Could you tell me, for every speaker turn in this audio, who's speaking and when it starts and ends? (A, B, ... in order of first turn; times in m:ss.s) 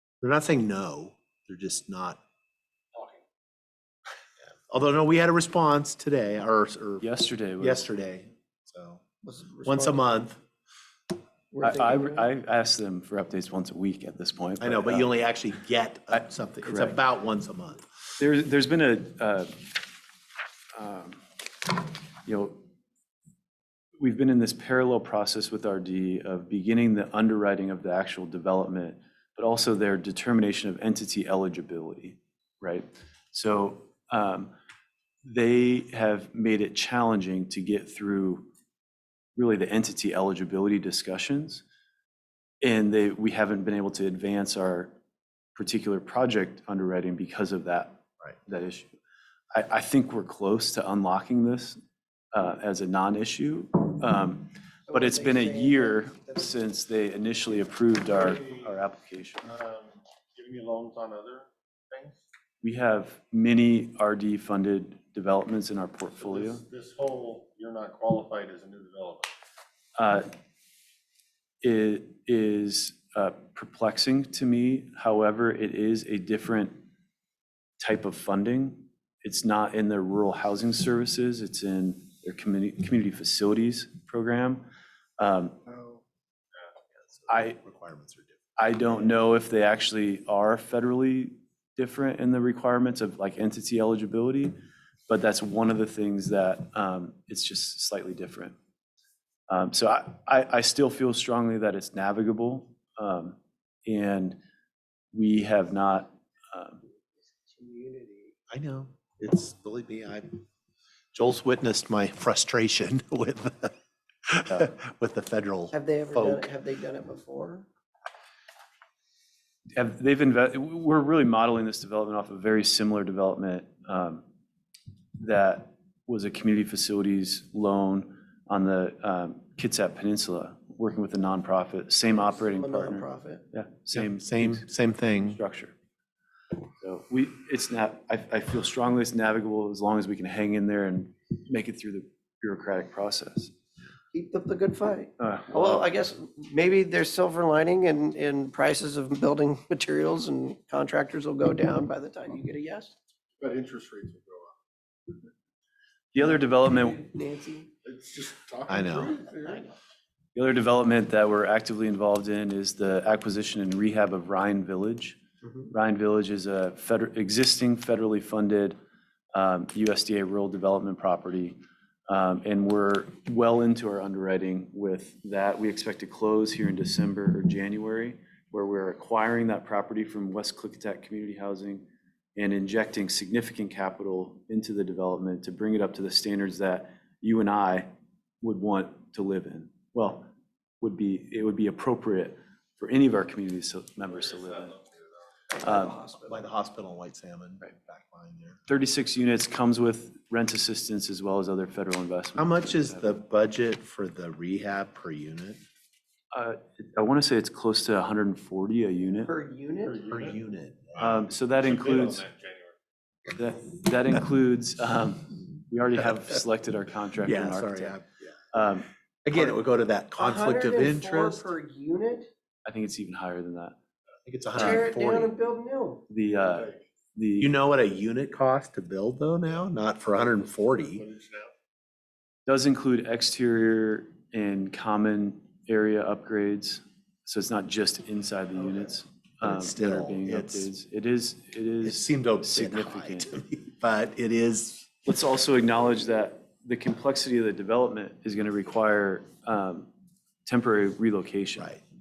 0:00.2-0:02.2 A
0:04.7-0:07.1 A
0:07.0-0:07.9 B
0:07.6-0:09.0 A
0:09.2-0:10.1 C
0:09.6-0:10.4 A
0:11.5-0:12.3 C
0:11.6-0:15.1 B
0:14.6-0:17.8 A
0:16.1-0:17.0 B
0:18.2-0:19.8 B
0:20.8-0:21.7 B
0:22.2-0:22.6 B
0:24.0-0:34.5 B
0:35.2-0:38.5 B
0:39.4-0:41.6 B
0:42.6-0:44.9 B
0:45.6-0:48.9 B
0:49.5-0:51.8 B
0:52.3-0:59.5 B
0:54.9-0:56.6 C
0:58.1-0:58.7 D
0:59.4-1:02.2 D
1:02.6-1:06.6 B
1:06.2-1:09.3 D
1:10.0-1:10.3 B
1:11.6-1:16.8 B
1:17.8-1:24.7 B
1:25.2-1:25.6 B
1:27.2-1:28.7 A
1:27.3-1:27.6 B
1:28.6-1:34.6 B
1:35.1-1:38.6 B
1:39.5-1:44.4 B
1:45.1-1:46.8 B
1:47.1-1:48.4 C
1:48.5-1:50.4 A
1:51.1-1:53.7 A
1:54.3-1:56.5 A
1:55.7-1:57.7 C
1:59.8-2:04.2 B
2:05.2-2:14.6 B
2:12.1-2:13.5 C
2:13.9-2:15.4 A
2:15.2-2:15.7 B
2:16.8-2:23.5 B
2:24.1-2:33.0 C
2:25.2-2:25.7 B
2:33.4-2:34.6 D
2:36.1-2:37.0 B
2:36.2-2:37.7 C
2:37.8-2:39.6 D
2:38.7-2:39.2 A
2:39.4-2:39.7 C
2:40.4-2:45.2 B
2:45.4-2:45.7 C
2:45.7-2:48.8 B
2:49.3-3:01.8 B
3:02.4-3:07.9 B
3:08.4-3:10.3 B
3:10.8-3:14.8 B
3:15.5-3:16.5 C
3:15.6-3:16.0 B
3:16.3-3:18.6 A
3:18.7-3:23.1 B
3:22.4-3:25.6 A
3:26.3-3:29.3 B
3:29.2-3:30.0 C
3:29.8-3:30.4 D
3:30.1-3:31.3 A
3:31.0-3:32.2 B
3:31.6-3:32.8 D
3:33.4-3:38.0 B
3:37.2-3:38.2 A
3:38.5-3:39.6 B
3:39.2-3:41.5 A
3:40.2-3:42.3 C
3:42.7-3:43.8 B
3:44.3-3:45.3 A
3:44.6-3:44.9 B
3:44.6-3:46.1 C
3:46.1-3:47.5 B
3:46.4-3:46.7 D
3:47.4-3:51.0 A
3:50.8-3:51.5 D
3:52.5-4:03.3 B
3:58.6-3:59.0 C
3:59.4-4:00.7 A
4:01.8-4:04.9 A
4:05.1-4:09.9 B
4:10.5-4:11.8 B
4:11.6-4:11.8 A